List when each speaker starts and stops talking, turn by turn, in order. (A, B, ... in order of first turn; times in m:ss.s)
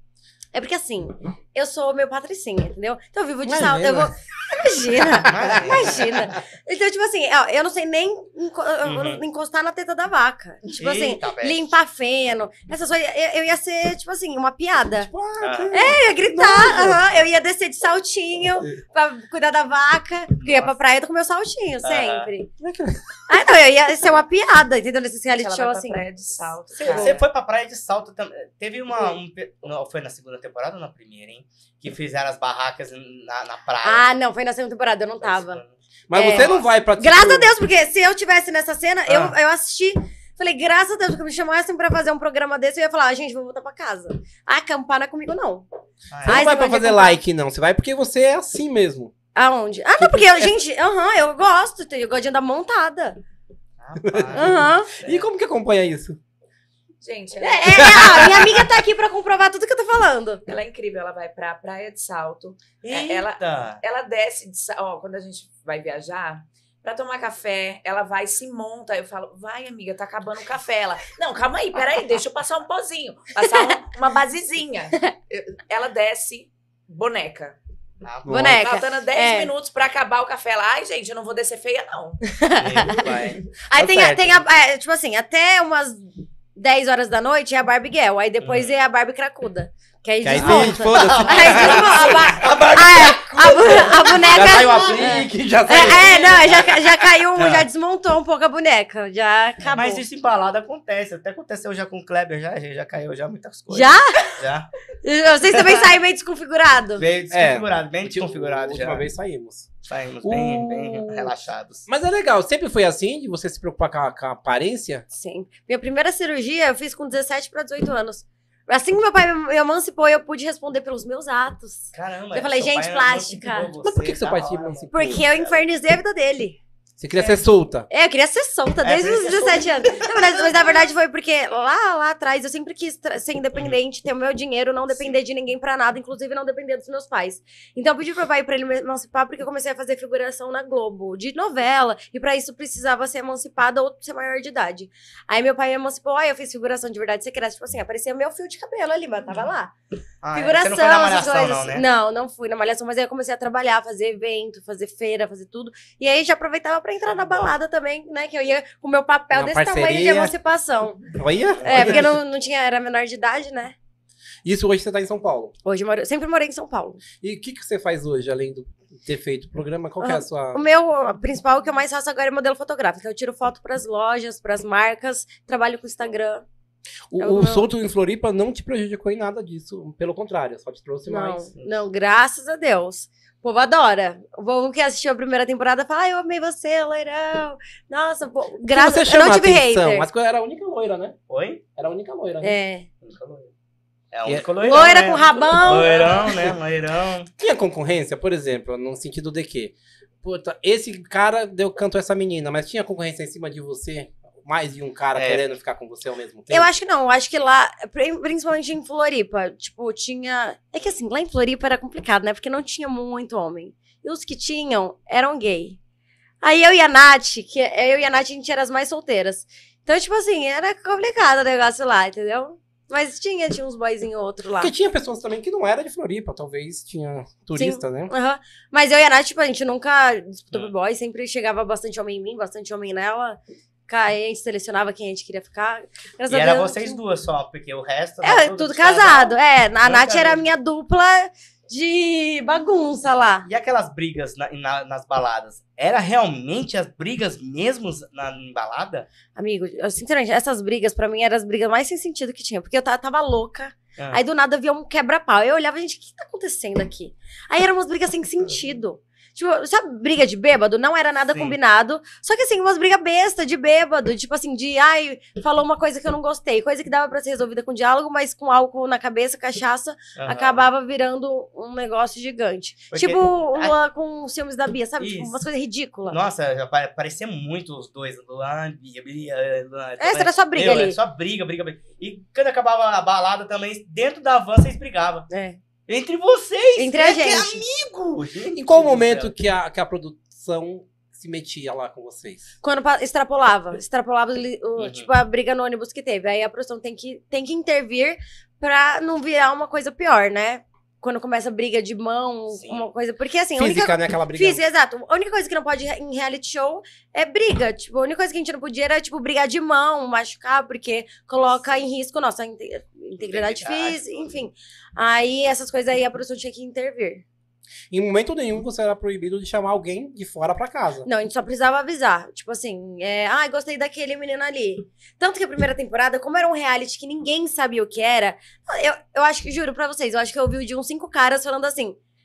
0:00.5-0:15.1 A
0:03.4-0:04.1 B
0:05.0-0:06.1 B
0:05.2-0:06.3 C
0:08.8-0:09.2 C
0:10.8-0:11.6 C
0:15.0-0:17.0 B
0:15.4-0:15.7 C
0:15.7-0:22.5 A
0:20.4-0:20.8 C
0:21.8-0:22.3 C
0:22.6-0:23.2 B
0:23.3-0:26.0 A
0:25.3-0:27.2 D
0:26.8-0:34.1 C
0:26.8-0:27.2 A
0:33.8-0:35.6 A
0:35.2-0:36.6 C
0:36.1-0:37.5 B
0:36.1-0:45.6 A
0:39.1-0:39.3 C
0:46.1-0:46.4 C
0:46.2-0:49.1 B
0:46.2-0:47.2 A
0:49.3-0:53.2 A
0:50.0-0:50.5 B
0:53.8-0:55.2 C
0:54.0-0:56.2 B
0:54.3-0:54.9 A
0:57.0-0:58.3 D
0:57.4-1:00.4 A
0:57.7-0:58.6 B
1:00.4-1:17.6 D
1:02.8-1:03.8 C
1:13.4-1:13.7 A
1:18.0-1:18.3 C
1:18.2-1:18.6 B
1:18.3-1:19.5 A
1:18.3-1:22.2 D
1:22.3-1:23.0 A
1:22.6-1:23.4 C
1:23.7-1:40.0 A
1:23.7-1:24.4 B
1:28.4-1:28.8 C
1:30.2-1:36.7 B
1:30.3-1:32.7 C
1:34.2-1:35.1 C
1:35.7-1:36.6 C
1:37.4-1:37.7 C
1:39.7-1:44.7 C
1:43.7-1:44.4 A
1:45.0-1:47.0 A
1:45.5-1:45.9 C
1:47.0-1:49.0 C
1:47.3-1:49.7 B
1:49.8-1:51.9 C
1:50.2-1:51.3 B
1:51.9-1:55.0 B
1:55.1-2:03.7 A
2:01.9-2:05.6 C
2:03.8-2:05.2 B
2:04.9-2:06.6 A
2:07.0-2:07.9 B
2:07.1-2:07.4 C
2:07.9-2:29.7 A
2:08.8-2:10.4 C
2:14.9-2:15.2 C
2:30.2-2:31.8 C
2:30.3-2:43.7 A
2:39.3-2:40.3 B
2:41.1-2:42.2 B
2:41.6-2:42.1 C
2:44.4-2:45.5 B
2:45.6-2:47.0 A
2:47.2-2:50.6 B
2:50.0-2:56.4 A
2:57.1-3:01.5 B
2:57.2-2:57.7 A
3:01.0-3:10.1 A
3:01.6-3:01.8 C
3:08.7-3:11.2 B
3:11.3-3:11.6 C
3:11.8-3:12.5 B
3:12.4-3:12.9 A
3:13.0-3:13.5 C
3:14.1-3:17.3 C
3:14.6-3:16.3 A
3:15.8-3:16.6 B
3:17.4-3:26.7 B
3:25.1-3:25.4 C
3:26.5-3:35.8 A
3:36.4-3:44.7 A
3:44.6-3:48.1 B
3:47.5-3:57.0 A
3:56.3-4:00.4 C
3:58.2-4:03.5 A
4:03.4-4:09.1 C
4:09.3-4:36.2 A
4:14.0-4:14.2 C
4:30.2-4:30.6 C
4:32.9-4:33.7 C
4:35.0-4:35.4 C
4:36.1-4:45.3 C
4:40.0-4:41.0 A
4:45.3-4:45.6 A
4:45.9-4:49.3 C
4:46.8-4:47.6 A
4:48.5-4:52.5 B
4:52.6-5:17.2 A
4:54.8-4:55.1 C
5:02.5-5:02.9 C
5:03.6-5:04.6 B
5:13.2-5:14.3 C
5:17.9-5:21.1 B
5:21.0-5:32.0 A